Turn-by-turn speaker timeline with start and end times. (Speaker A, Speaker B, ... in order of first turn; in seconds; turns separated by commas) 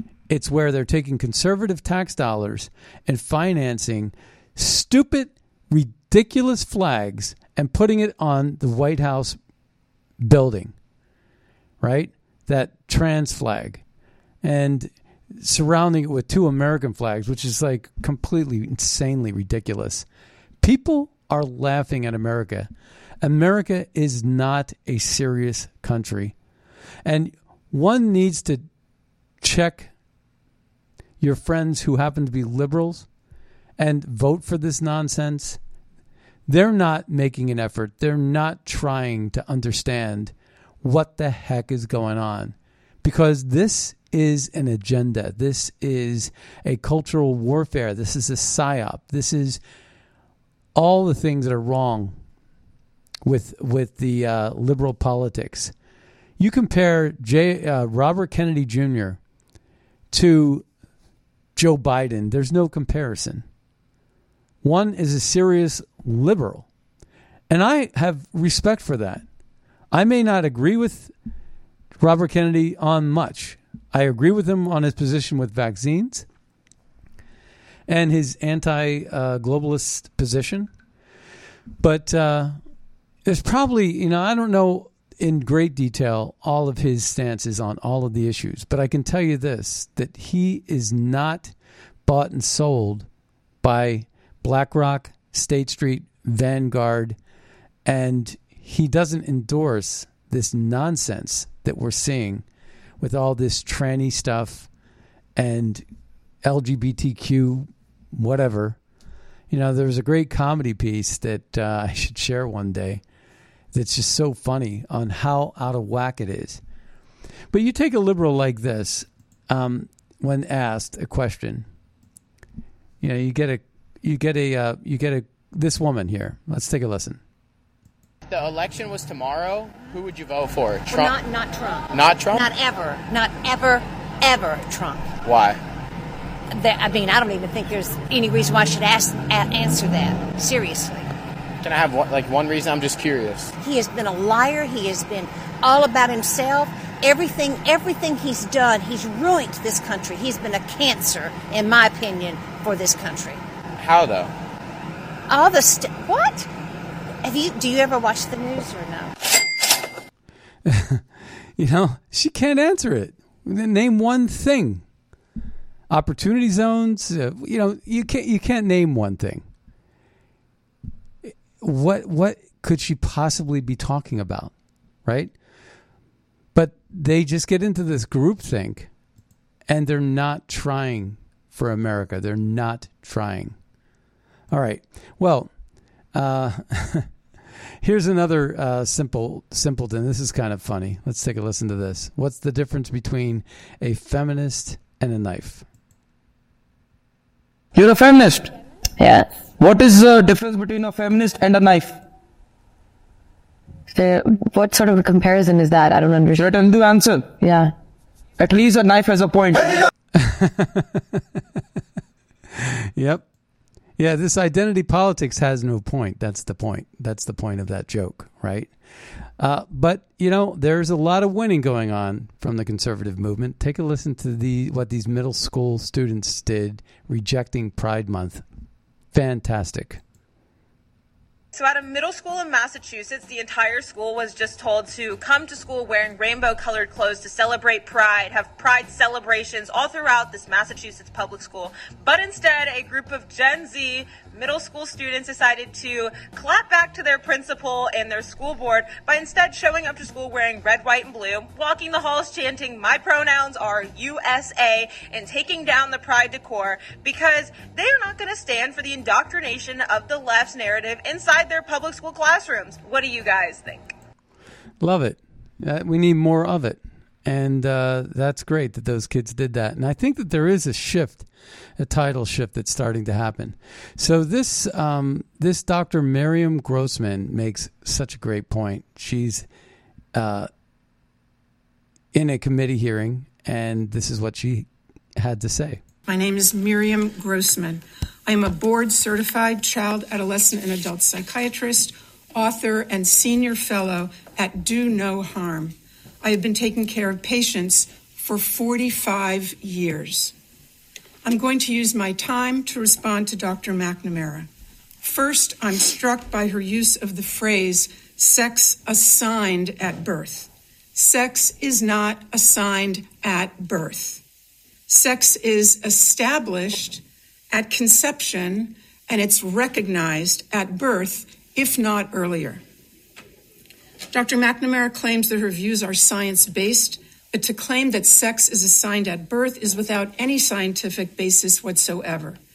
Speaker A: 0.3-9.4, Speaker A: 10.2-10.7, Speaker A: 11.8-13.8, Speaker A: 14.4-20.1, Speaker A: 20.6-22.7, Speaker A: 23.2-26.4, Speaker A: 27.0-28.6, Speaker A: 29.4-29.9, Speaker A: 31.2-33.1, Speaker A: 33.8-35.6, Speaker A: 36.5-49.6, Speaker A: 50.7-52.1, Speaker A: 53.2-55.7, Speaker A: 56.4-59.2, Speaker A: 60.1-60.6, Speaker A: 61.5-63.4, Speaker A: 64.6-66.7, Speaker A: 67.5-69.2, Speaker A: 69.9-71.1, Speaker A: 72.0-76.2, Speaker A: 77.9-80.7, Speaker A: 81.8-82.6, Speaker A: 83.2-91.5, Speaker A: 92.0-93.1, Speaker A: 93.6-97.2, Speaker A: 97.8-102.4, Speaker A: 103.0-104.7, Speaker A: 105.3-105.8, Speaker A: 106.4-108.8, Speaker A: 109.5-113.0, Speaker A: 113.7-116.6, Speaker A: 117.5-121.7, Speaker A: 123.0-127.2, Speaker B: 128.3-131.1, Speaker C: 130.9-135.2, Speaker B: 131.9-132.5, Speaker B: 135.2-135.6, Speaker C: 136.5-141.1, Speaker B: 141.6-143.5, Speaker C: 143.6-153.4, Speaker B: 153.8-154.3, Speaker C: 155.3-156.5, Speaker C: 157.2-159.1, Speaker A: 160.7-161.0, Speaker A: 161.6-164.8, Speaker A: 165.9-169.4, Speaker A: 171.6-174.5, Speaker A: 175.0-175.3, Speaker A: 176.5-178.9, Speaker A: 179.7-183.6, Speaker A: 184.5-185.5, Speaker A: 186.1-187.1, Speaker A: 187.8-195.6, Speaker D: 197.7-198.5, Speaker E: 199.0-199.3, Speaker D: 199.6-202.0, Speaker E: 203.9-206.4, Speaker D: 206.4-207.6, Speaker D: 208.4-209.7, Speaker A: 210.2-211.0, Speaker A: 212.6-213.2, Speaker A: 214.0-218.7, Speaker A: 219.4-228.4, Speaker A: 229.1-230.0, Speaker F: 231.5-263.9, Speaker A: 264.8-271.3, Speaker A: 271.8-279.5, Speaker A: 280.1-280.5, Speaker A: 282.1-285.8, Speaker G: 286.1-300.3, Speaker G: 301.2-304.5, Speaker G: 305.0-314.2, Speaker G: 314.9-322.6, Speaker G: 324.1-332.4